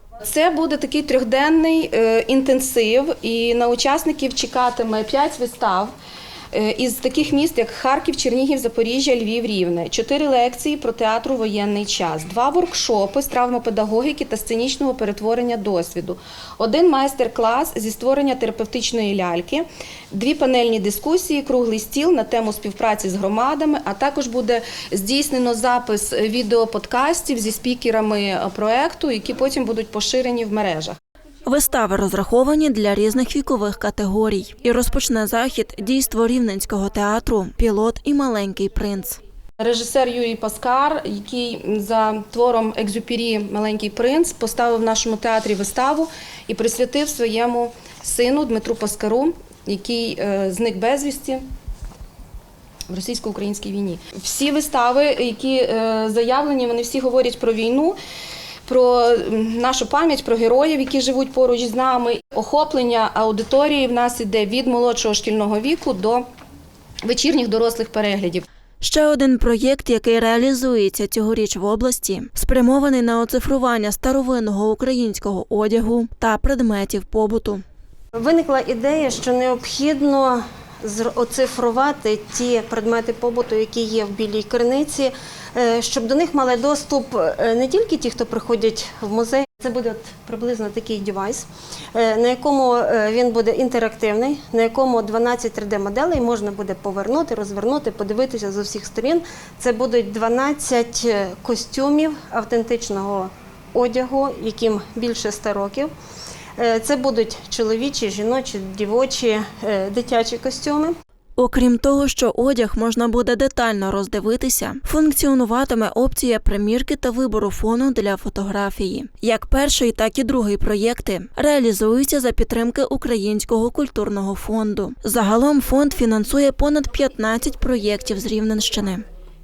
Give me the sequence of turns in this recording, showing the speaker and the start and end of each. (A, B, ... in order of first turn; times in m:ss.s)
0:00.2-0:05.9 A
0:06.5-0:31.0 A
0:31.4-0:39.2 B
0:39.6-0:51.5 A
0:52.9-0:58.0 A
0:58.7-1:06.3 A
1:07.0-1:08.4 A
1:08.8-1:17.6 B
1:18.2-1:45.9 C
1:46.6-1:51.0 C
1:51.4-2:09.0 B